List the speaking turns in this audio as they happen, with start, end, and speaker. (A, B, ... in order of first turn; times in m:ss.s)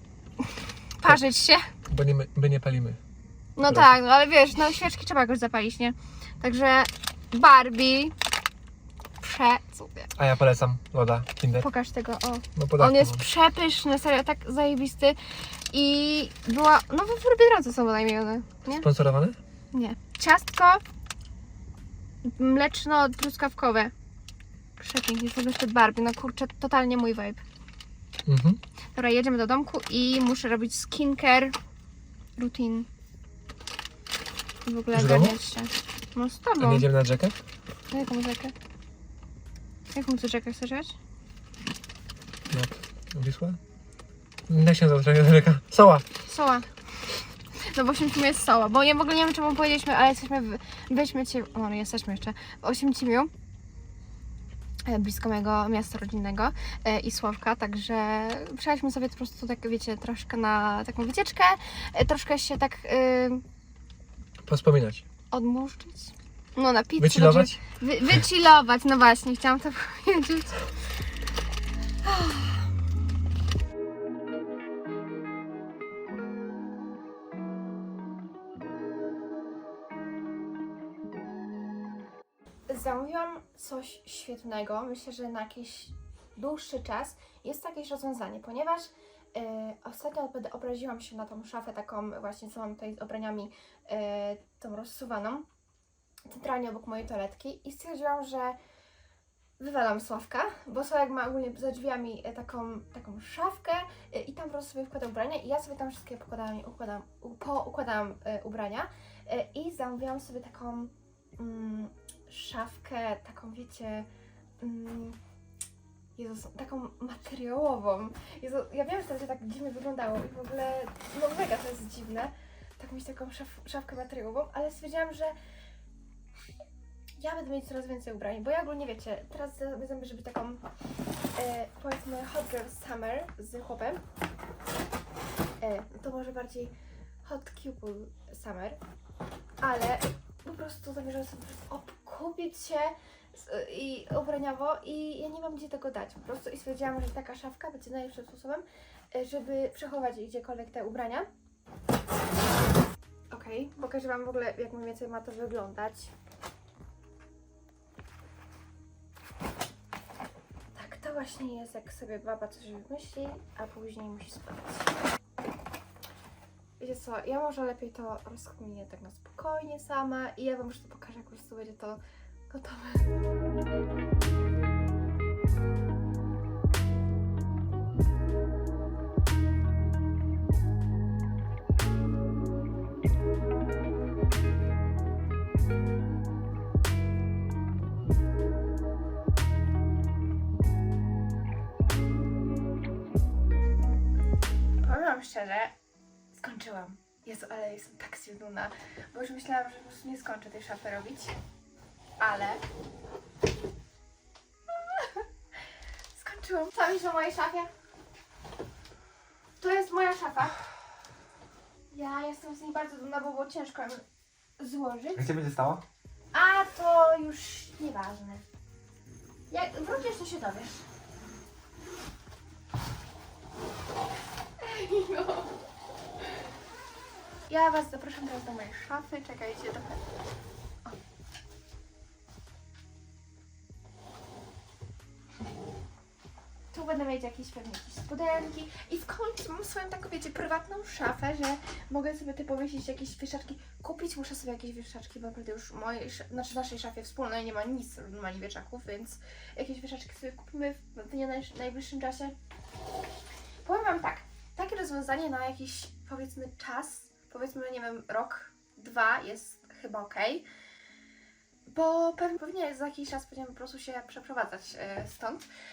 0:00.4-0:01.7 A
0:01.9-0:03.0 B
0:03.6-0:08.2 A
0:09.2-0:10.1 A
0:10.2-0:11.7 B
0:11.6-0:15.2 A
0:12.6-0:13.2 B
0:15.7-0:18.9 A
0:18.8-0:19.4 B
0:19.7-0:20.8 A
0:22.2-0:23.9 A
0:24.8-0:27.4 A
0:28.3-0:28.6 B
0:29.0-0:31.6 A
0:32.4-0:32.9 A
0:34.7-0:36.9 A
0:34.9-0:35.4 B
0:36.6-0:37.4 B
0:37.9-0:38.5 A
0:39.9-0:41.0 A
0:42.5-0:43.6 B
0:44.5-0:46.0 B
0:46.3-0:53.3 A
0:54.9-1:03.4 A
1:04.4-1:05.0 B
1:05.3-1:10.7 A
1:07.0-1:07.6 B
1:12.0-1:12.6 A
1:22.7-1:35.5 A
1:36.3-1:38.6 A
1:39.6-1:54.1 A
1:54.6-1:55.2 A
1:56.2-2:05.4 A
2:07.2-2:10.6 A
2:11.4-2:14.0 A
2:15.6-2:16.7 A
2:17.2-2:18.8 A
2:19.6-2:31.3 A
2:33.3-2:36.1 A
2:40.8-2:44.9 A
2:46.8-2:53.1 A
3:14.8-3:15.8 A
3:16.3-3:21.4 A
3:22.2-3:22.6 A
3:24.7-3:25.2 A
3:26.1-3:27.7 A
3:29.6-3:30.6 A
3:31.9-3:34.0 A
3:34.6-3:35.3 A
3:35.2-3:35.8 B
3:36.3-3:38.4 A
3:39.5-3:40.8 A
3:44.6-3:45.6 A
3:47.5-3:50.0 A
3:56.7-4:12.4 A
4:13.6-4:20.4 A
4:21.7-4:25.5 A